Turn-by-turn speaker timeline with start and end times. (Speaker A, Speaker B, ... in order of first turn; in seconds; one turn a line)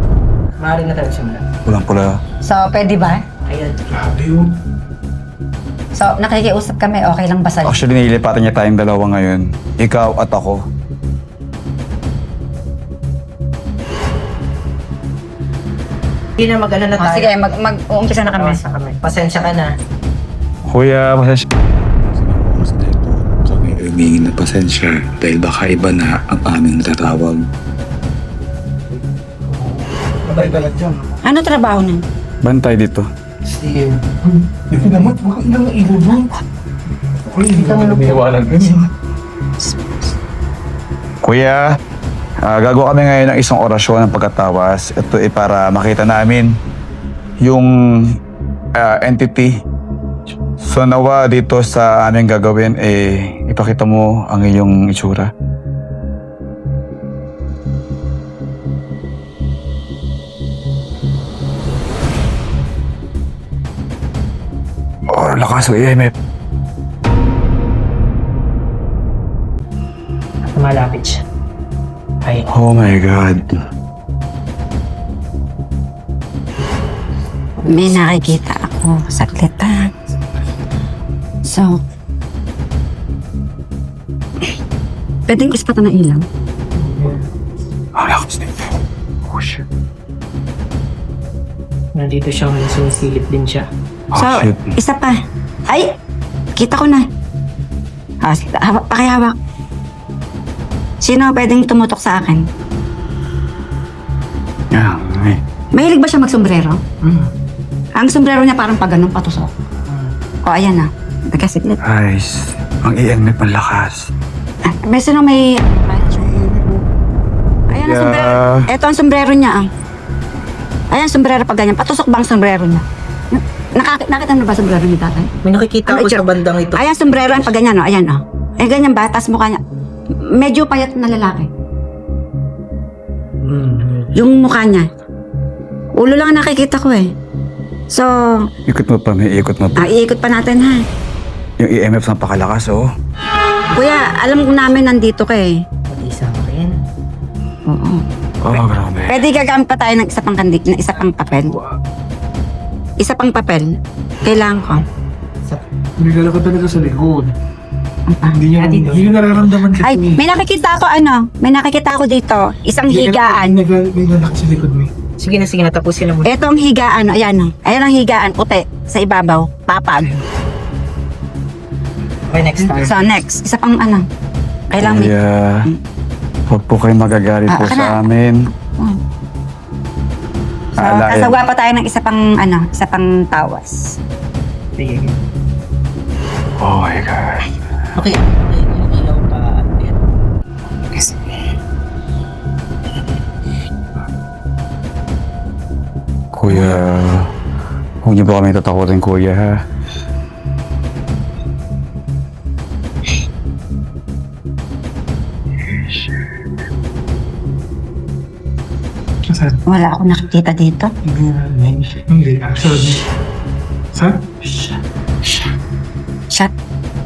Speaker A: 0.6-1.4
Speaker B: 1.6-2.1
Speaker C: 2.4-3.2
Speaker A: 3.5-3.8
Speaker D: 4.0-4.5
Speaker C: 6.0-7.8
Speaker B: 7.7-10.6
Speaker A: 16.4-17.3
Speaker C: 17.0-18.6
Speaker A: 18.3-19.7
Speaker B: 20.7-21.5
Speaker E: 22.1-27.4
Speaker A: 30.2-30.7
Speaker D: 30.4-31.0
Speaker C: 31.2-32.0
Speaker B: 32.4-33.1
Speaker D: 34.7-36.3
Speaker D: 37.4-38.9
Speaker A: 37.6-38.2
Speaker B: 41.2-41.6
Speaker B: 42.4-46.6
Speaker B: 47.4-48.1
Speaker B: 48.8-49.5
Speaker B: 50.6-55.3
Speaker B: 65.1-66.1
Speaker A: 70.5-71.2
Speaker B: 72.5-73.5
Speaker C: 77.7-79.9
Speaker C: 81.5-81.7
Speaker C: 85.3-86.2
Speaker A: 86.8-87.1
Speaker B: 88.0-88.7
Speaker B: 89.3-89.6
Speaker A: 92.0-93.6
Speaker B: 94.1-94.6
Speaker C: 94.2-95.2
Speaker C: 95.7-95.9
Speaker C: 96.5-97.0
Speaker C: 98.2-99.3
Speaker C: 101.0-102.5
Speaker B: 104.7-105.4
Speaker C: 105.7-106.8
Speaker C: 108.0-109.5
Speaker C: 110.5-111.8
Speaker B: 111.8-114.1
Speaker C: 114.7-116.5
Speaker B: 117.7-118.7
Speaker C: 117.7-119.7
Speaker C: 120.9-125.3
Speaker A: 125.4-127.5
Speaker C: 125.9-129.6
Speaker C: 130.3-131.5
Speaker C: 134.2-134.8
Speaker C: 136.0-137.1
Speaker B: 138.7-139.8
Speaker C: 139.8-140.8
Speaker B: 141.6-142.9
Speaker C: 143.8-145.6
Speaker A: 145.9-146.8
Speaker C: 147.7-148.0
Speaker B: 148.4-149.2
Speaker C: 149.1-151.6
Speaker C: 153.0-153.7
Speaker C: 154.2-154.8
Speaker D: 156.0-157.3
Speaker C: 158.1-158.4
Speaker D: 158.4-160.2
Speaker A: 158.5-159.7
Speaker C: 159.8-163.6
Speaker D: 162.9-164.9
Speaker A: 165.2-166.3
Speaker C: 166.2-170.2
Speaker A: 172.3-173.0
Speaker C: 172.8-174.0
Speaker C: 174.7-175.1
Speaker B: 174.8-175.7
Speaker B: 176.5-178.3
Speaker C: 177.5-178.0
Speaker C: 180.8-183.9
Speaker B: 180.8-181.4
Speaker A: 184.8-185.1
Speaker B: 186.6-187.5
Speaker A: 188.0-190.0
Speaker B: 196.3-197.3
Speaker B: 198.0-199.6
Speaker C: 209.7-210.9
Speaker D: 211.1-213.1
Speaker D: 213.9-214.2